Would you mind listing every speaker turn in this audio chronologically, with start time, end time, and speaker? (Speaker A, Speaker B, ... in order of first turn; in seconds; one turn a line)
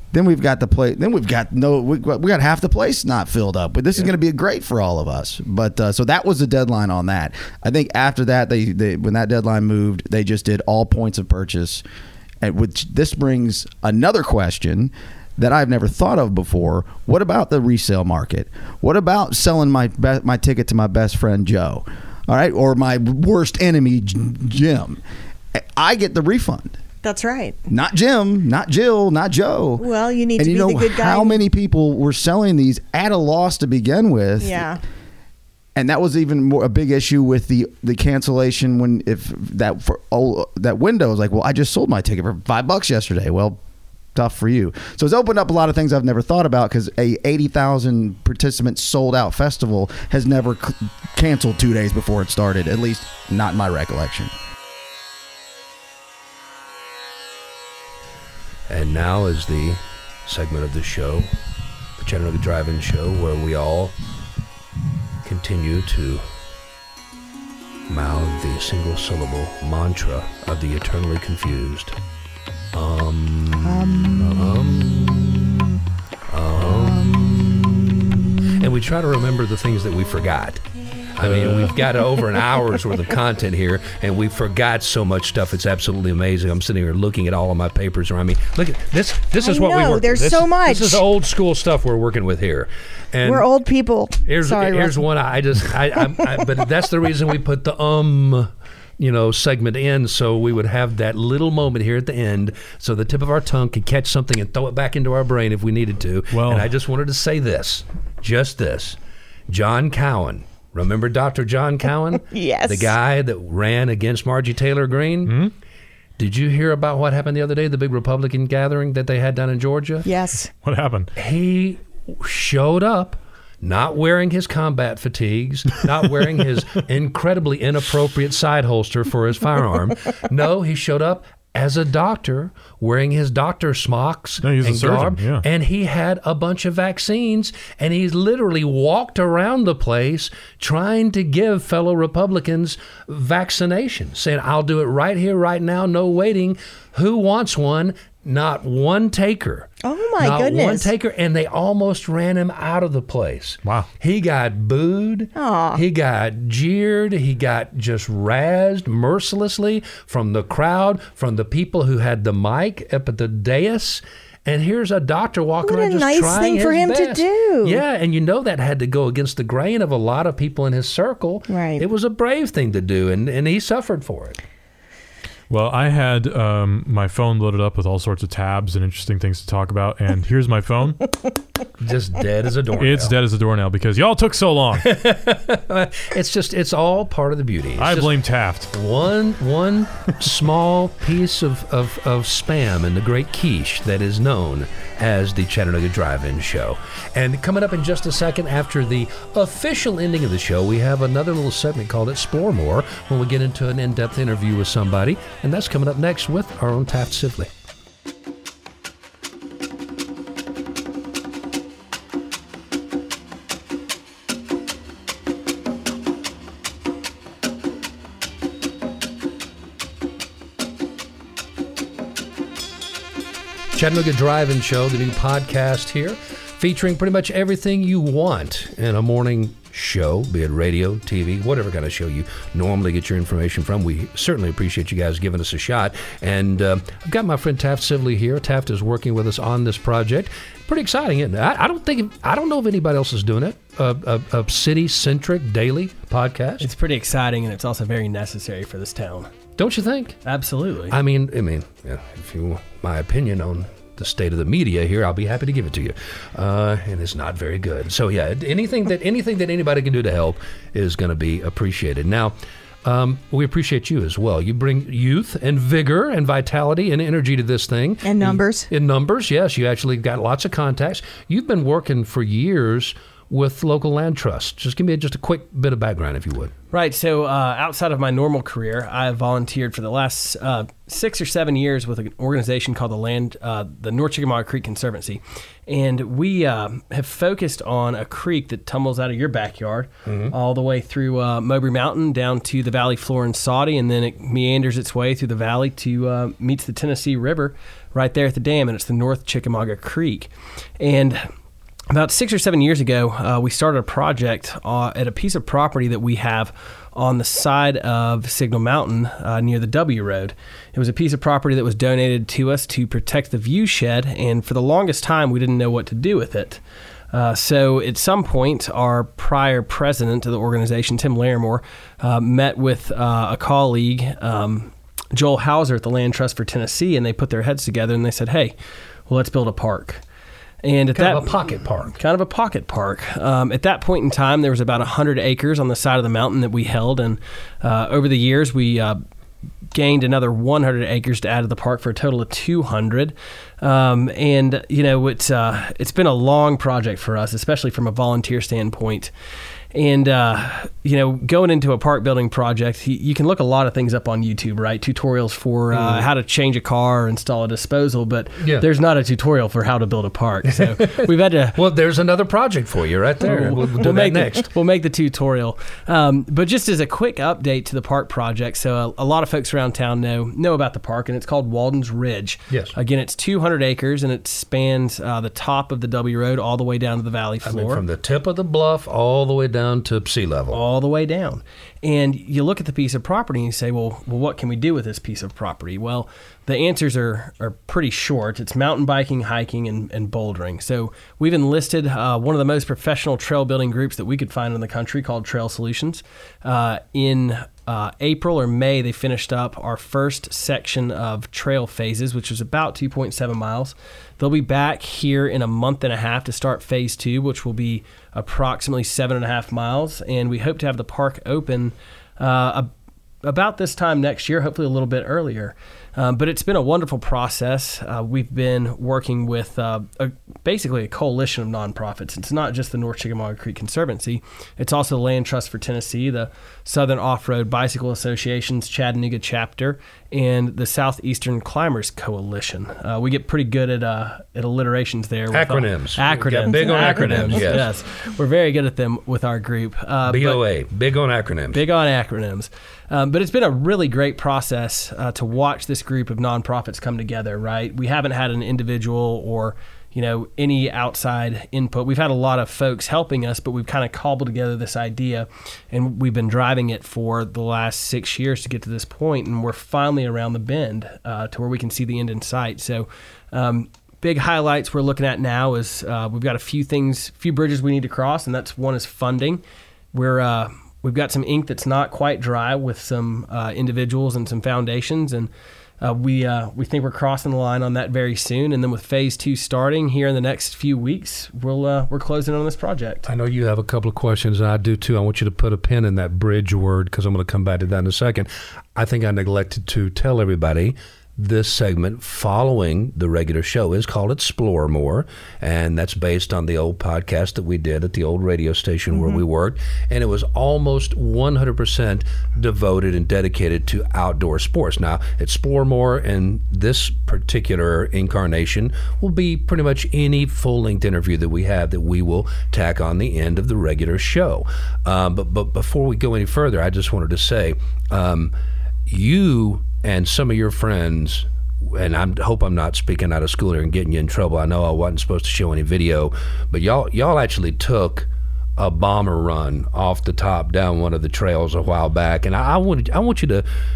Speaker A: 0.1-11.8
Speaker A: 12.4-25.0
Speaker A: 25.6-26.8
Speaker B: 27.0-27.6
Speaker A: 27.7-34.7
Speaker B: 29.8-31.4
Speaker B: 34.4-34.8
Speaker A: 35.8-43.6
Speaker A: 44.1-54.3
Speaker C: 58.7-61.3
Speaker C: 62.0-63.9
Speaker C: 65.2-66.2
Speaker C: 67.9-72.0
Speaker C: 72.7-75.5
Speaker B: 73.6-75.2
Speaker C: 76.3-80.6
Speaker B: 76.6-77.4
Speaker C: 81.2-93.5
Speaker D: 81.2-81.7
Speaker B: 89.4-91.0
Speaker B: 93.2-95.0
Speaker C: 94.3-109.0
Speaker B: 96.1-96.4
Speaker D: 106.3-106.7
Speaker C: 109.5-115.4
Speaker B: 112.2-112.9
Speaker D: 115.3-115.5
Speaker C: 116.2-120.1
Speaker B: 120.0-120.5
Speaker D: 120.6-121.1
Speaker C: 121.2-174.4
Speaker D: 134.4-135.4
Speaker B: 149.8-150.9
Speaker B: 155.4-155.8
Speaker B: 165.6-167.8
Speaker B: 171.5-171.8
Speaker D: 175.5-181.1
Speaker C: 181.8-183.2
Speaker D: 182.8-184.9
Speaker C: 184.8-188.2
Speaker D: 187.8-188.7
Speaker C: 188.7-207.5
Speaker C: 223.7-246.7
Speaker E: 246.6-249.3
Speaker C: 249.6-250.2
Speaker E: 250.2-251.0
Speaker C: 250.9-276.5
Speaker B: 268.0-268.7
Speaker E: 276.7-301.2
Speaker C: 290.1-290.3
Speaker E: 301.9-316.6
Speaker E: 317.1-328.6
Speaker E: 329.1-330.0
Speaker E: 330.6-339.0
Speaker C: 330.9-331.9
Speaker E: 339.7-349.1
Speaker E: 349.7-361.6
Speaker C: 355.7-356.1
Speaker C: 358.4-358.7
Speaker C: 360.6-364.5
Speaker E: 363.2-377.9
Speaker C: 377.4-380.6
Speaker E: 380.5-412.7
Speaker E: 413.2-440.4
Speaker C: 435.3-437.7
Speaker B: 436.5-437.2
Speaker C: 440.1-441.6
Speaker E: 441.5-475.3
Speaker E: 475.8-483.1
Speaker C: 483.1-518.3
Speaker B: 498.9-499.2
Speaker C: 518.9-533.5